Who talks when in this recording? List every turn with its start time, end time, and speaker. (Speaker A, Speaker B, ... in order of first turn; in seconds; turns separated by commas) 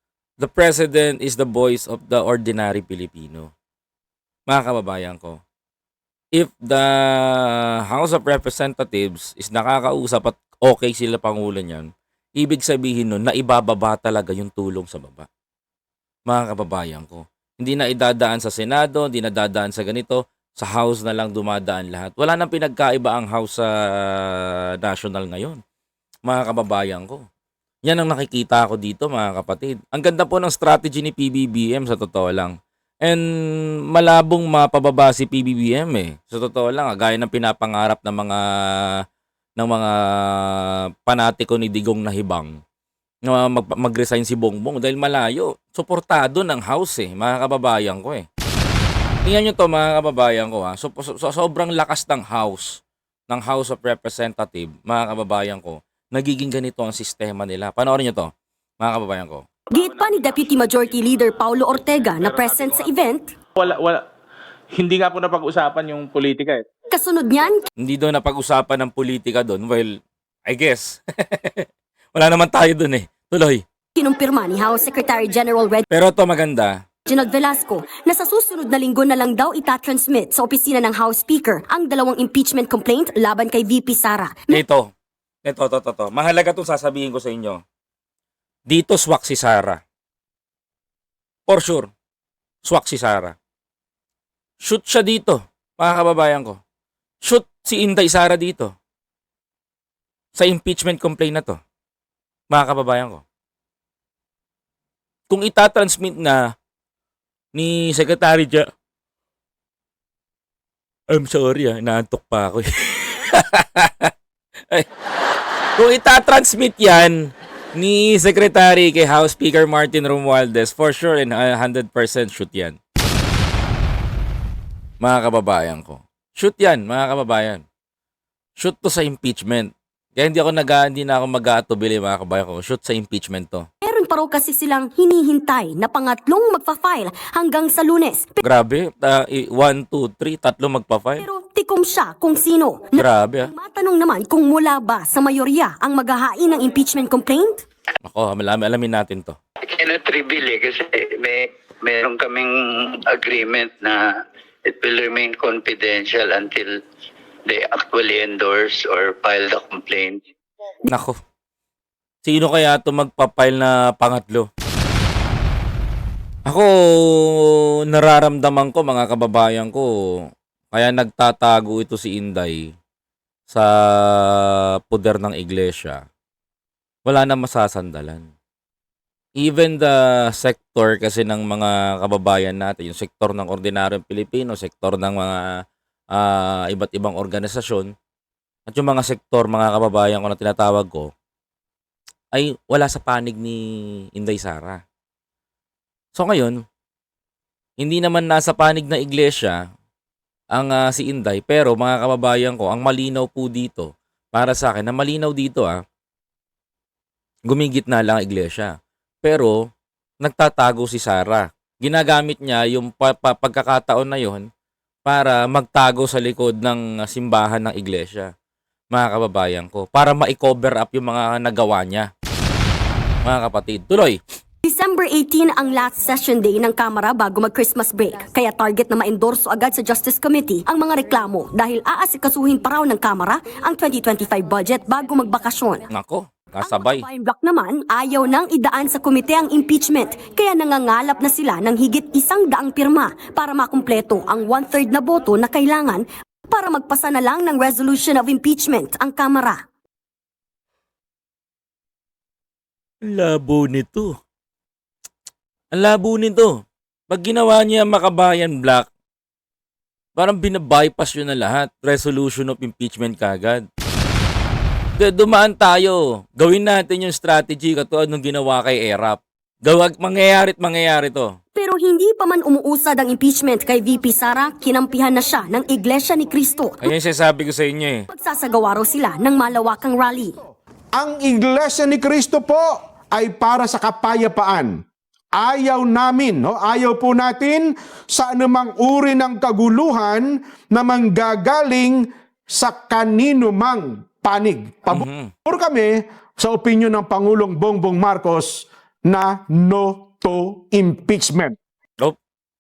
Speaker A: 0.4-3.5, Speaker A: 4.5-5.4, Speaker A: 6.3-15.3, Speaker A: 16.3-25.6, Speaker A: 26.3-27.2, Speaker A: 27.9-33.2, Speaker A: 33.9-39.0, Speaker A: 39.6-42.5, Speaker A: 43.3-48.3, Speaker A: 49.2-52.8, Speaker A: 53.3-59.5, Speaker B: 59.7-63.3, Speaker C: 63.6-64.1, Speaker C: 64.7-66.7, Speaker B: 66.9-67.7, Speaker A: 67.8-73.6, Speaker B: 74.0-75.8, Speaker A: 75.9-76.8, Speaker B: 77.1-84.6, Speaker A: 84.5-84.9, Speaker A: 85.5-87.6, Speaker A: 88.7-89.8, Speaker A: 91.5-91.9, Speaker A: 92.6-93.3, Speaker A: 94.6-96.6, Speaker A: 97.2-98.7, Speaker A: 100.3-101.6, Speaker A: 102.5-103.2, Speaker A: 105.3-106.4, Speaker A: 107.5-108.7, Speaker A: 111.1-114.1, Speaker A: 115.8-122.8, Speaker A: 125.0-127.6, Speaker A: 128.6-133.7, Speaker B: 133.8-138.4, Speaker A: 138.4-141.3, Speaker B: 141.2-147.6, Speaker A: 143.0-143.5, Speaker A: 148.0-149.4, Speaker D: 149.7-152.5, Speaker D: 153.2-154.0, Speaker D: 154.8-156.7, Speaker D: 157.5-160.2, Speaker A: 160.9-161.1, Speaker A: 162.2-164.5, Speaker A: 166.5-169.9, Speaker A: 170.7-172.6, Speaker A: 173.5-176.0, Speaker A: 177.1-178.3, Speaker A: 179.4-185.5, Speaker A: 186.1-187.9, Speaker A: 188.7-191.1, Speaker A: 192.3-193.6, Speaker A: 194.2-194.8, Speaker A: 196.2-196.6, Speaker A: 197.8-199.6, Speaker A: 200.5-205.8, Speaker A: 207.5-209.6, Speaker A: 210.2-214.5, Speaker A: 215.1-218.3, Speaker A: 218.9-222.1, Speaker A: 223.2-224.2, Speaker B: 224.7-235.8, Speaker A: 235.9-237.1, Speaker B: 236.6-249.6, Speaker A: 253.0-254.1, Speaker A: 255.7-258.9, Speaker A: 260.2-263.6, Speaker A: 265.0-271.3, Speaker B: 271.6-276.9, Speaker A: 276.8-278.1, Speaker B: 278.1-280.4, Speaker E: 280.9-284.8, Speaker E: 285.3-301.6, Speaker A: 294.9-295.3